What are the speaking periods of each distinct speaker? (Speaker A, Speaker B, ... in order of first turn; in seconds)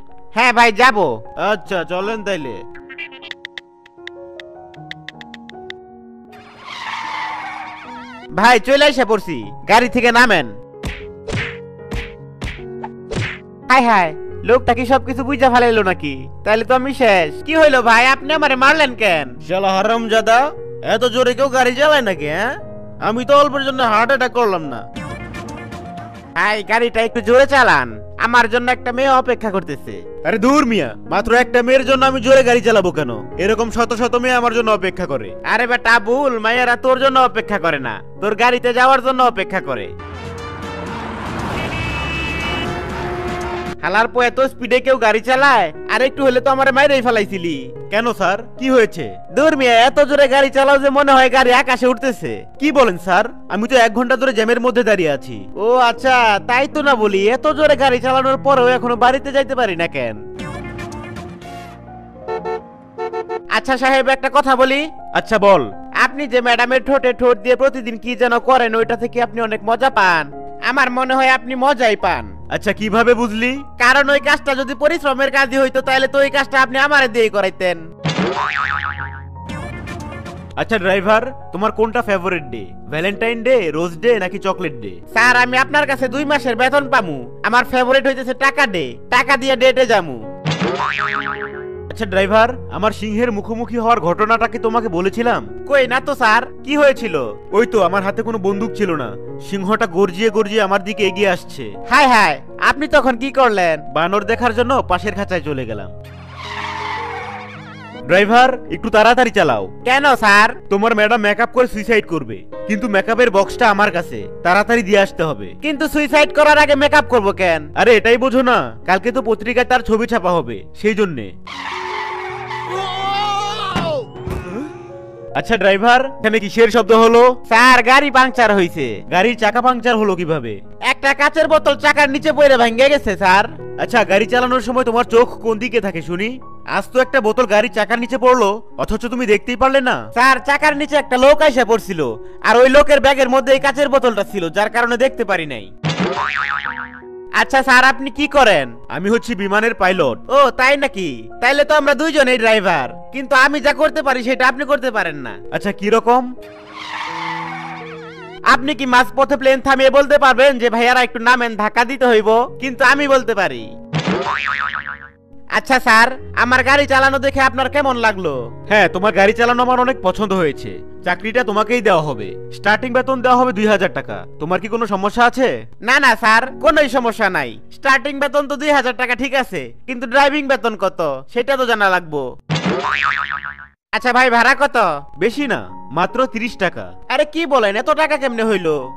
Speaker A: 0.4-1.2, 8.4-10.5, 13.7-19.4, 26.4-30.1, 35.5-39.9, 43.8-47.8, 49.3-52.6, 55.6-60.2, 63.5-65.0, 66.0-72.4, 73.8-77.8, 85.1-90.2, 95.7-97.4, 101.9-103.9, 109.8-110.6, 115.6-117.7, 127.5-129.0, 130.9-133.6, 140.2-145.7, 147.4-148.8, 150.3-155.4, 158.5-163.7, 165.6-168.5, 175.8-182.2, 183.9-185.0, 187.1-188.8
Speaker B: 1.4-2.6, 19.4-24.8, 30.1-35.4, 47.8-49.3, 52.5-55.6, 65.1-65.7, 72.5-73.8, 80.6-85.0, 91.9-95.7, 97.3-101.8, 103.8-105.9, 108.1-109.8, 110.6-115.6, 117.7-121.3, 125.4-127.4, 129.0-130.6, 133.8-140.1, 148.8-150.3, 155.4-156.3, 168.6-175.5, 185.2-187.0